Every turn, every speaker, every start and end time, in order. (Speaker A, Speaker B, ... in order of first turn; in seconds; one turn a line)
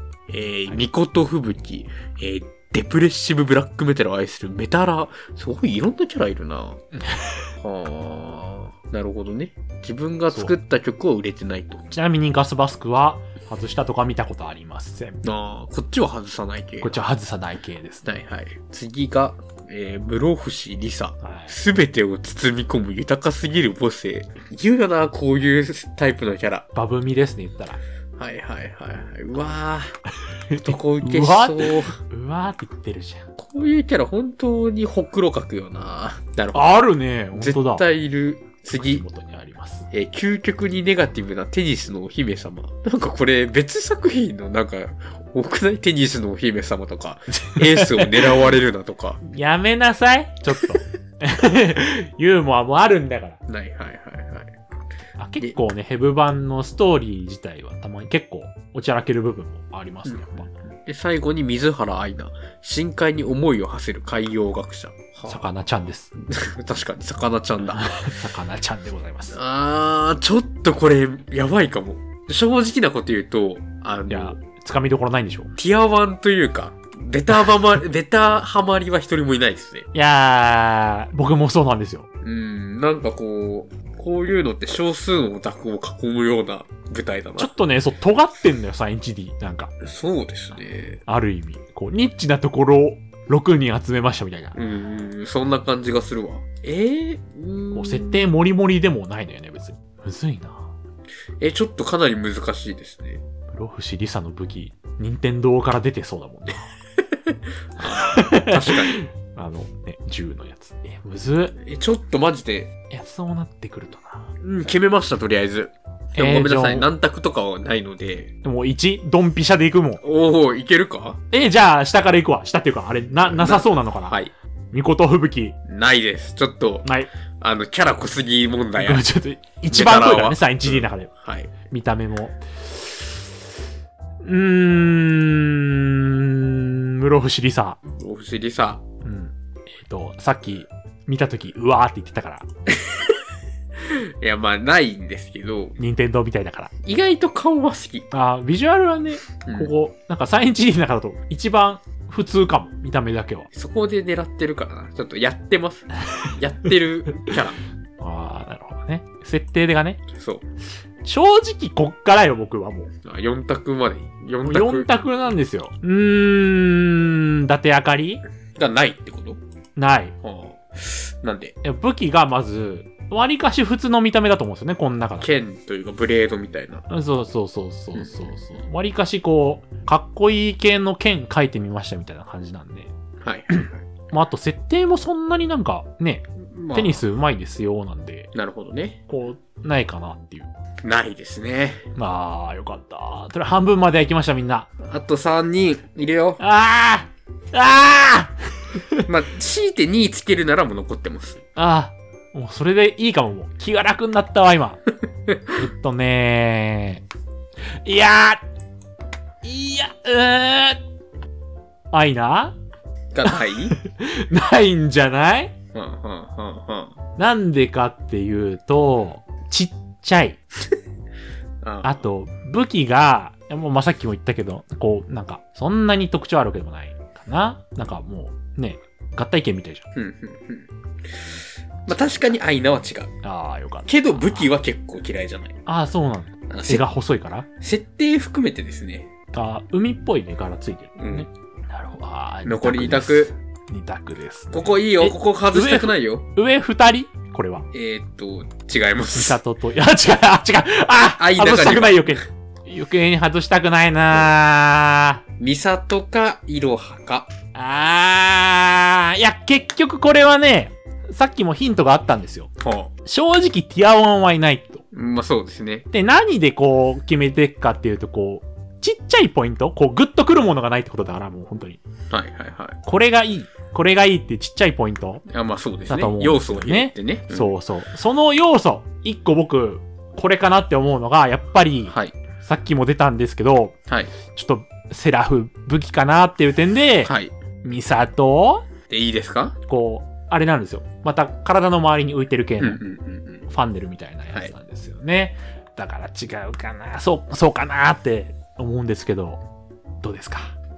Speaker A: 0.3-6.8
Speaker B: 6.9-7.5
Speaker A: 7.6-11.8
Speaker B: 11.9-15.2
Speaker A: 15.2-17.0
Speaker B: 16.8-18.1
Speaker A: 18.0-26.7
Speaker B: 21.2-21.6
Speaker B: 26.7-27.8
Speaker A: 28.2-29.9
Speaker B: 30.5-33.3
Speaker A: 30.6-32.0
Speaker A: 33.4-36.8
Speaker B: 36.5-37.9
Speaker A: 37.3-39.0
Speaker B: 38.8-39.9
Speaker A: 39.9-49.2
Speaker B: 47.3-48.3
Speaker B: 49.2-53.4
Speaker A: 53.5-54.5
Speaker B: 55.2-60.5
Speaker A: 60.0-68.1
Speaker B: 65.3-66.1
Speaker B: 67.8-69.3
Speaker A: 69.3-74.3
Speaker B: 74.1-75.5
Speaker A: 75.6-79.8
Speaker B: 79.9-82.1
Speaker A: 82.2-87.5
Speaker B: 87.4-89.7
Speaker A: 89.8-91.0
Speaker B: 91.1-94.6
Speaker A: 94.5-98.3
Speaker B: 97.7-100.7
Speaker A: 101.4-103.2
Speaker B: 103.5-106.7
Speaker A: 107.1-109.0
Speaker B: 107.8-111.5
Speaker A: 111.6-112.7
Speaker B: 112.9-114.3
Speaker A: 114.4-118.3
Speaker B: 116.2-116.9
Speaker B: 118.4-120.0
Speaker A: 120.0-121.2
Speaker B: 121.3-124.2
Speaker A: 123.2-124.3
Speaker B: 124.7-125.6
Speaker A: 125.7-126.9
Speaker B: 126.8-127.1
Speaker A: 127.4-129.1
Speaker B: 128.8-131.1
Speaker A: 129.7-131.5
Speaker B: 131.7-133.2
Speaker B: 134.2-137.8
Speaker A: 137.9-138.8
Speaker B: 139.0-142.4
Speaker A: 142.7-143.1
Speaker A: 143.8-145.8
Speaker B: 145.8-146.7
Speaker A: 146.8-148.1
Speaker B: 148.1-153.5
Speaker A: 149.4-149.7
Speaker A: 153.5-157.6
Speaker B: 158.0-160.0
Speaker A: 160.1-160.4
Speaker B: 161.0-162.9
Speaker A: 163.0-164.9
Speaker B: 164.4-168.2
Speaker A: 168.6-169.4
Speaker B: 169.8-170.2
Speaker A: 170.2-171.5
Speaker B: 171.6-175.4
Speaker A: 175.2-176.8
Speaker B: 176.9-182.9
Speaker A: 183.2-183.8
Speaker B: 183.5-188.3
Speaker A: 186.5-187.0
Speaker A: 188.3-189.0
Speaker B: 189.1-190.5
Speaker A: 190.8-191.8
Speaker B: 191.9-194.7
Speaker A: 194.8-196.4
Speaker B: 196.4-199.1
Speaker A: 199.1-201.4
Speaker B: 201.6-204.8
Speaker B: 205.5-207.0
Speaker B: 207.7-208.4
Speaker B: 209.4-210.8
Speaker B: 211.9-212.6
Speaker A: 213.1-213.7
Speaker B: 213.2-215.5
Speaker A: 215.7-216.9
Speaker B: 217.2-220.4
Speaker A: 221.6-222.0
Speaker B: 221.8-229.9
Speaker A: 229.9-233.1
Speaker B: 233.2-234.3
Speaker A: 233.9-235.6
Speaker B: 235.7-237.5
Speaker A: 236.5-236.8
Speaker A: 237.6-239.1
Speaker B: 239.3-247.7
Speaker A: 241.0-241.3
Speaker A: 242.4-243.3
Speaker A: 244.5-246.2
Speaker A: 247.7-249.4
Speaker B: 249.1-255.2
Speaker A: 251.2-252.2
Speaker A: 255.4-257.3
Speaker B: 257.5-262.5
Speaker A: 262.6-262.9
Speaker B: 263.0-264.8
Speaker A: 264.9-265.9
Speaker B: 265.9-271.8
Speaker A: 272.1-272.8
Speaker B: 272.8-275.2
Speaker A: 275.3-277.5
Speaker B: 275.9-283.8
Speaker A: 281.9-282.1
Speaker B: 284.3-288.7
Speaker A: 287.0-287.3
Speaker A: 288.9-289.6
Speaker B: 289.6-292.8
Speaker A: 292.6-293.4
Speaker B: 293.5-299.4
Speaker B: 300.0-300.5